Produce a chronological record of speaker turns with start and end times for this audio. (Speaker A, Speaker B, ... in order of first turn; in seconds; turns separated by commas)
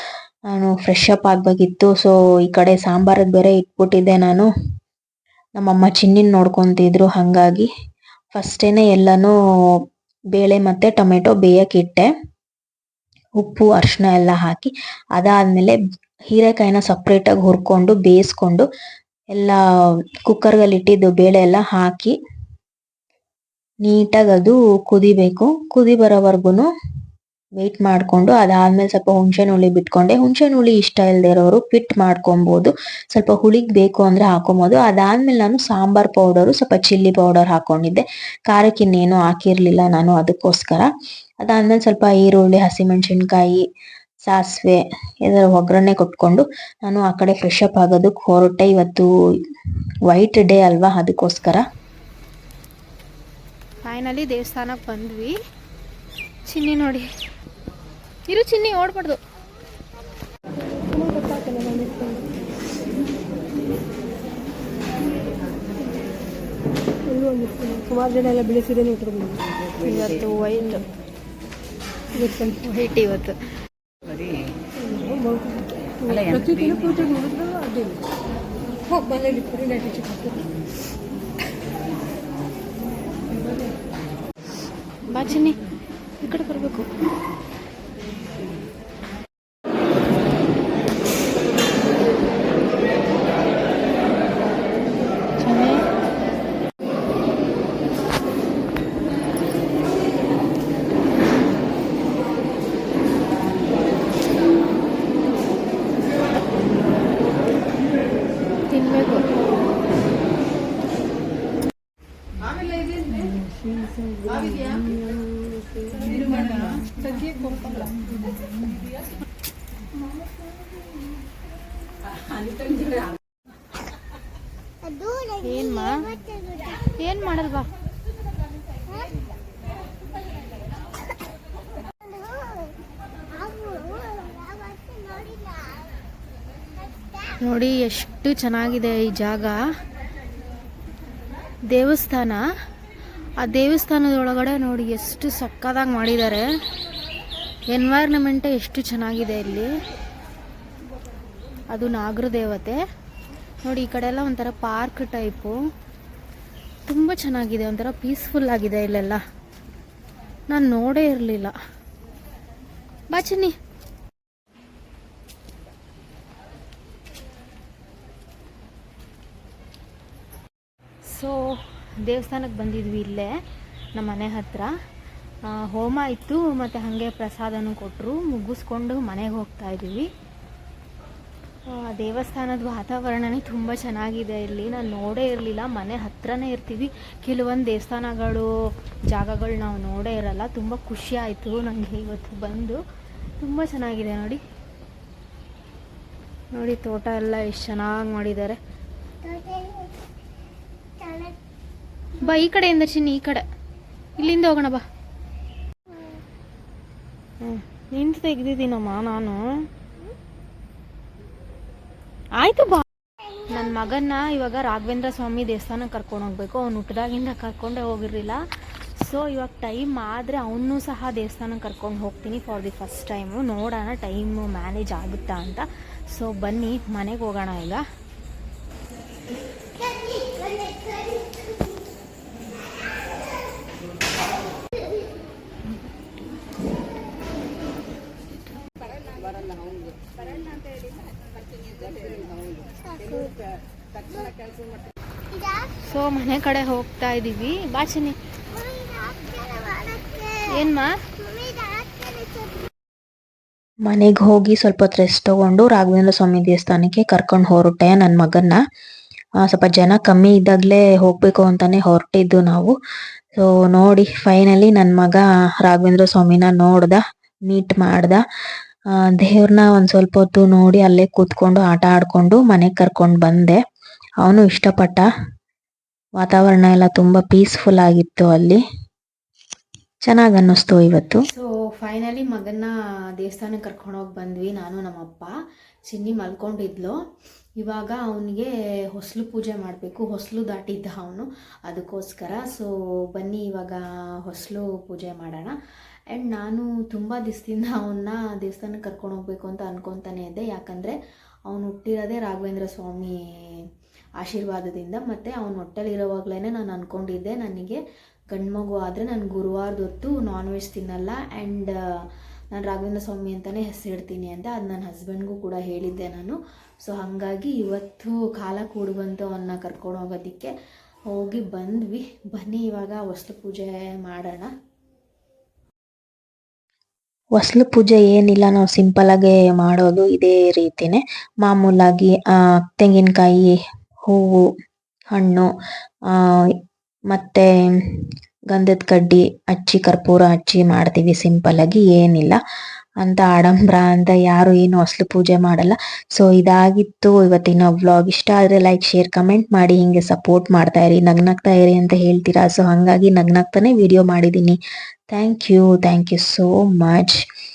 Speaker A: 0.5-4.5, Speaker A: 5.6-7.7, Speaker A: 8.3-9.3, Speaker A: 10.3-12.1, Speaker A: 13.4-15.8, Speaker A: 16.3-18.7, Speaker A: 19.3-19.6, Speaker A: 20.2-22.1, Speaker A: 23.8-26.7, Speaker A: 27.6-40.9, Speaker A: 41.4-43.6, Speaker A: 44.3-49.1, Speaker A: 50.1-51.6, Speaker B: 53.8-55.4, Speaker B: 56.5-57.1, Speaker B: 58.3-59.2, Speaker C: 60.9-62.2, Speaker C: 67.1-69.4, Speaker B: 69.8-70.9, Speaker B: 72.2-73.3, Speaker C: 74.8-78.0, Speaker C: 78.9-80.3, Speaker B: 85.1-85.5, Speaker B: 86.2-86.9, Speaker B: 95.4-95.8, Speaker B: 108.7-109.3, Speaker C: 113.8-116.5, Speaker B: 116.3-116.7, Speaker C: 117.2-117.5, Speaker B: 125.3-126.2, Speaker B: 126.8-127.7, Speaker B: 137.4-139.6, Speaker B: 141.7-142.4, Speaker B: 143.4-146.5, Speaker B: 147.7-149.7, Speaker B: 151.7-152.8, Speaker B: 153.6-155.6, Speaker B: 156.9-159.2, Speaker B: 160.5-161.5, Speaker B: 163.1-163.6, Speaker B: 171.1-173.4, Speaker B: 173.9-174.7, Speaker B: 175.4-180.1, Speaker B: 181.7-192.8, Speaker B: 193.4-194.4, Speaker B: 196.5-198.6, Speaker B: 202.2-203.4, Speaker B: 204.2-204.8, Speaker B: 207.4-209.7, Speaker B: 212.4-212.8, Speaker B: 213.5-218.4, Speaker B: 219.0-227.8, Speaker B: 245.7-248.2, Speaker B: 250.3-251.2, Speaker A: 253.8-258.6, Speaker A: 259.4-262.7, Speaker A: 263.4-268.2, Speaker A: 269.2-273.6, Speaker A: 274.2-275.0, Speaker A: 276.2-278.6, Speaker A: 280.1-281.2, Speaker B: 281.3-285.3, Speaker B: 285.9-287.0, Speaker B: 287.6-295.6, Speaker B: 296.1-300.9, Speaker B: 301.5-303.6, Speaker B: 304.2-320.5, Speaker B: 321.1-324.5, Speaker A: 327.4-332.2, Speaker A: 332.8-334.5, Speaker A: 335.1-335.5, Speaker A: 336.1-336.5, Speaker A: 337.1-338.0, Speaker A: 338.5-342.4, Speaker A: 343.0-354.6, Speaker A: 355.1-357.2